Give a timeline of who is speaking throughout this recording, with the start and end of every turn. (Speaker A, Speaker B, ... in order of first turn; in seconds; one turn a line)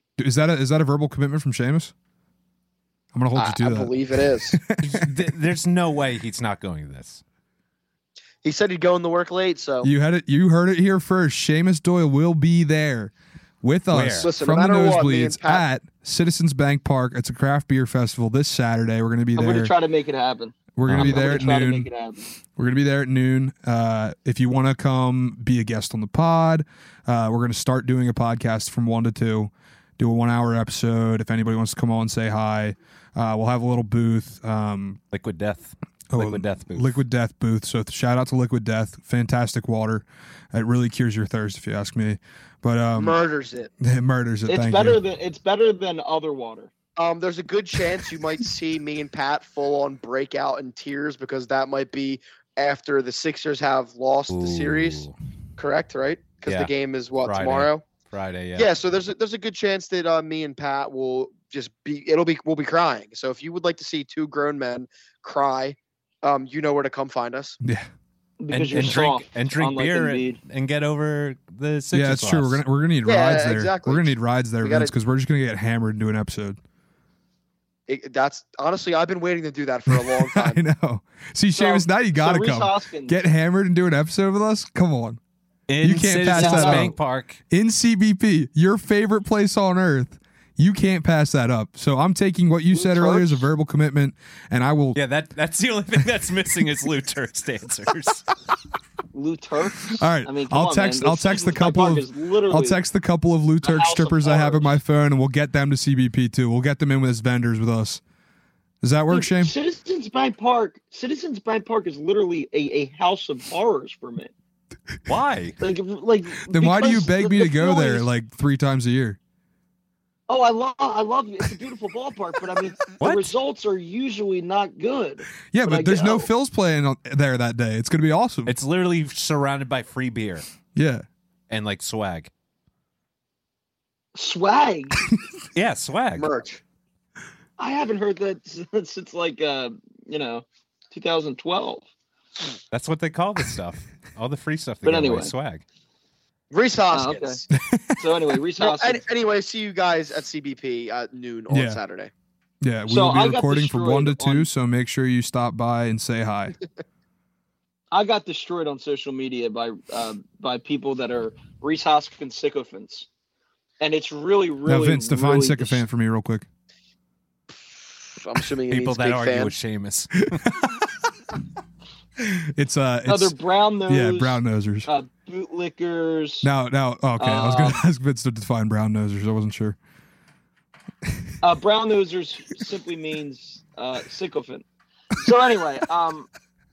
Speaker A: 0.2-1.9
Speaker A: 3.1-5.1
Speaker B: 3.3-4.6
Speaker C: 4.8-7.2
Speaker B: 8.4-9.9
Speaker A: 9.8-19.7
Speaker C: 13.9-14.3
Speaker B: 14.2-15.6
Speaker D: 19.3-22.2
Speaker A: 20.8-21.9
Speaker C: 20.8-21.5
Speaker A: 22.6-35.0
Speaker C: 35.1-37.0
Speaker A: 36.1-43.2
Speaker B: 42.9-43.7
Speaker A: 43.8-45.0
Speaker D: 44.5-46.7
Speaker B: 47.0-57.9
Speaker C: 54.3-55.1
Speaker C: 56.5-56.7
Speaker C: 57.2-58.7
Speaker B: 58.5-67.6
Speaker D: 68.4-70.4
Speaker C: 68.5-72.6
Speaker A: 71.9-76.6
Speaker B: 73.0-74.9
Speaker B: 77.9-80.6
Speaker A: 79.9-85.2
Speaker D: 81.5-83.2
Speaker C: 85.7-87.4
Speaker A: 85.8-87.0
Speaker D: 86.3-86.9
Speaker A: 87.5-95.0
Speaker D: 92.7-93.4
Speaker C: 94.9-98.3
Speaker D: 99.1-102.8
Speaker A: 99.9-108.0
Speaker D: 103.6-104.8
Speaker A: 108.8-109.5
Speaker D: 109.1-114.3
Speaker C: 115.1-115.6
Speaker D: 115.6-118.1
Speaker A: 116.5-119.2
Speaker D: 120.3-126.3
Speaker C: 123.0-123.3
Speaker A: 125.5-128.5
Speaker C: 128.4-130.4
Speaker A: 130.7-131.0
Speaker C: 131.5-132.3
Speaker D: 134.1-135.0
Speaker C: 135.5-136.3
Speaker B: 136.2-136.6
Speaker D: 137.6-141.9
Speaker C: 142.7-145.6
Speaker D: 144.8-145.3
Speaker B: 146.5-147.4
Speaker D: 146.9-147.4
Speaker A: 147.6-148.0
Speaker D: 148.0-149.0
Speaker B: 148.6-152.1
Speaker A: 151.5-151.8
Speaker A: 152.6-156.6
Speaker D: 152.9-154.5
Speaker D: 157.9-163.1
Speaker D: 163.8-165.8
Speaker A: 164.7-166.4
Speaker B: 167.5-169.6
Speaker C: 168.7-170.4
Speaker A: 170.4-170.7
Speaker A: 172.2-173.3
Speaker D: 173.1-176.5
Speaker A: 173.9-174.9
Speaker A: 176.4-179.8
Speaker D: 177.2-177.8
Speaker D: 181.4-184.6
Speaker D: 185.2-186.3